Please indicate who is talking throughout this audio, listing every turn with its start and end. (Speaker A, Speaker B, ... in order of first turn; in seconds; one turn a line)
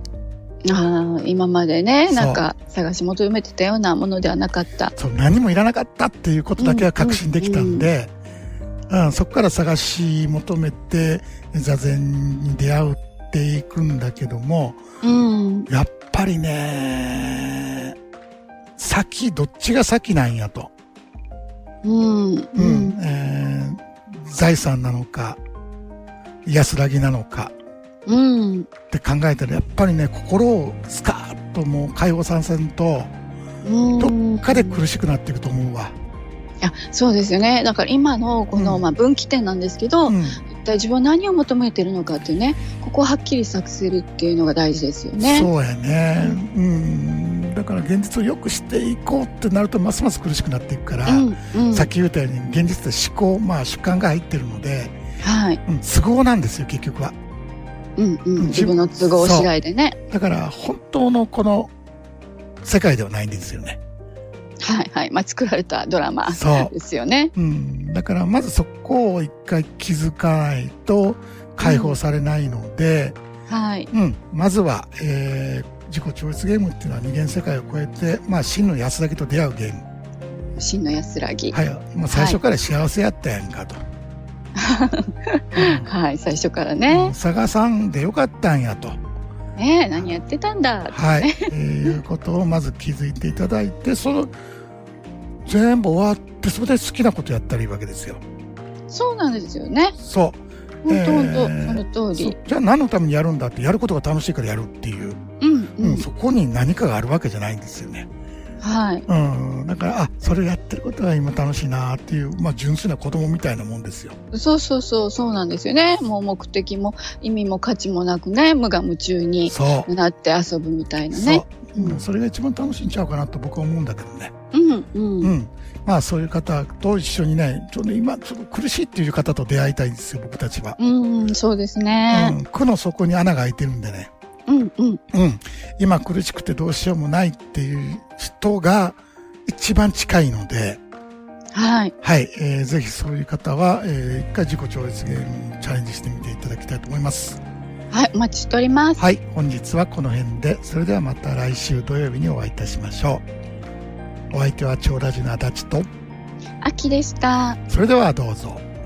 Speaker A: 0.7-5.0
Speaker B: 2.1-2.4
Speaker B: 5.0-8.1
Speaker A: 6.6-7.9
Speaker B: 8.9-14.8
Speaker A: 15.0-15.7
Speaker B: 15.7-18.0
Speaker B: 18.8-20.7
Speaker A: 21.8-23.0
Speaker B: 22.6-25.4
Speaker B: 26.5-27.5
Speaker A: 28.1-28.7
Speaker B: 28.9-33.1
Speaker A: 33.6-34.8
Speaker B: 34.0-36.0
Speaker A: 36.6-45.5
Speaker B: 38.5-38.9
Speaker B: 40.1-40.4
Speaker B: 45.2-55.0
Speaker A: 51.1-51.9
Speaker A: 55.2-55.6
Speaker B: 55.7-57.1
Speaker A: 58.0-60.0
Speaker B: 58.4-59.5
Speaker B: 60.1-61.7
Speaker B: 62.6-63.8
Speaker A: 64.6-67.3
Speaker B: 66.3-66.7
Speaker B: 67.3-73.2
Speaker A: 71.6-72.0
Speaker A: 73.5-73.9
Speaker B: 73.9-79.9
Speaker A: 80.6-81.6
Speaker B: 81.5-83.8
Speaker A: 82.1-82.4
Speaker A: 84.6-87.1
Speaker B: 85.5-85.9
Speaker B: 86.9-89.0
Speaker A: 89.6-91.9
Speaker B: 90.9-94.3
Speaker B: 95.5-98.2
Speaker A: 98.9-100.0
Speaker B: 100.0-105.2
Speaker A: 100.8-102.4
Speaker A: 105.4-106.1
Speaker B: 105.8-108.1
Speaker A: 108.6-109.1
Speaker B: 109.1-114.2
Speaker A: 114.3-122.0
Speaker B: 119.5-119.9
Speaker B: 121.1-124.3
Speaker A: 124.5-125.3
Speaker B: 125.2-130.8
Speaker A: 130.8-132.4
Speaker B: 132.1-134.1
Speaker A: 134.5-135.0
Speaker B: 135.1-140.8
Speaker A: 141.5-141.9
Speaker B: 142.0-147.4
Speaker A: 147.9-149.0
Speaker B: 149.0-153.2
Speaker B: 154.3-155.9
Speaker A: 156.6-157.6
Speaker B: 157.7-158.6